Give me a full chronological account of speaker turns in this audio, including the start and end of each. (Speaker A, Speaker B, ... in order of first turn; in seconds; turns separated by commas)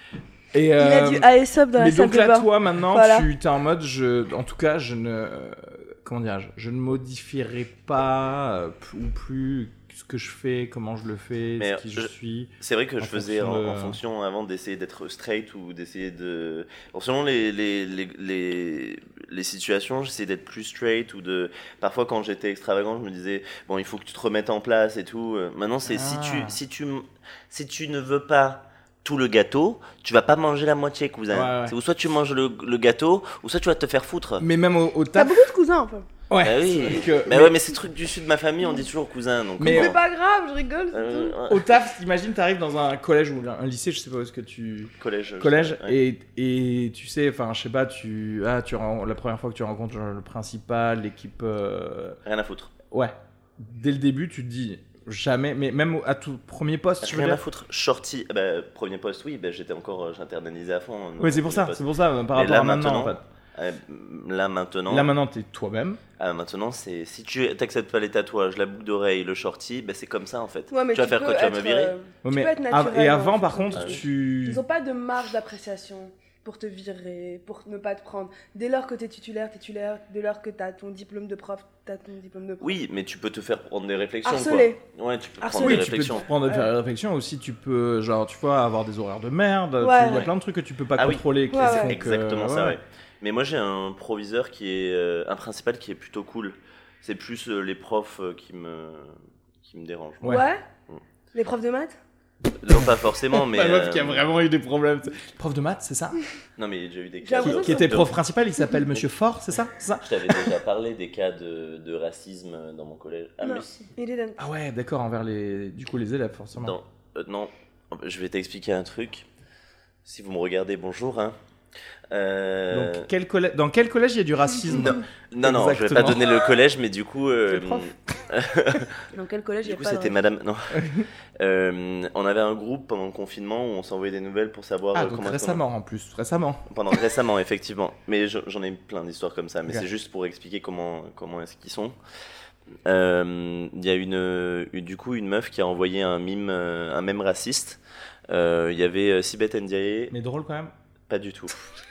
Speaker A: 0.5-14.0, Speaker B: 0.8-3.3, Speaker C: 11.6-34.5, Speaker A: 25.9-26.6, Speaker A: 31.3-31.7, Speaker A: 34.4-35.4, Speaker B: 35.1-36.1, Speaker A: 36.3-37.6, Speaker C: 36.4-40.0, Speaker A: 39.6-39.9, Speaker B: 39.6-41.4, Speaker C: 40.9-41.8, Speaker A: 41.5-52.2, Speaker C: 45.0-46.0, Speaker C: 52.2-52.7, Speaker A: 52.9-57.4, Speaker C: 57.0-65.1, Speaker A: 61.2-63.2, Speaker A: 64.9-66.0, Speaker C: 66.2-71.9, Speaker B: 70.7-82.8, Speaker A: 72.2-74.6, Speaker C: 73.8-74.0, Speaker C: 82.6-86.3, Speaker B: 84.2-84.8, Speaker B: 85.4-86.7, Speaker A: 85.6-92.8, Speaker B: 89.8-90.3, Speaker C: 91.0-101.0, Speaker B: 91.5-91.9, Speaker B: 100.2-100.6, Speaker B: 101.3-102.0, Speaker C: 102.6-104.2, Speaker A: 102.8-106.2, Speaker C: 106.6-108.1, Speaker B: 107.2-108.0, Speaker A: 107.4-110.5, Speaker C: 110.0-113.9, Speaker B: 113.4-114.4, Speaker A: 114.4-116.8, Speaker C: 116.5-119.3, Speaker C: 120.0-121.4, Speaker C: 122.1-123.1, Speaker A: 122.7-126.4, Speaker C: 124.7-129.0, Speaker B: 129.1-130.2, Speaker C: 129.6-130.9, Speaker A: 130.7-131.1, Speaker C: 131.4-135.6, Speaker A: 134.9-136.6, Speaker C: 136.7-142.0, Speaker C: 142.9-150.1, Speaker A: 150.1-150.7, Speaker C: 151.1-151.5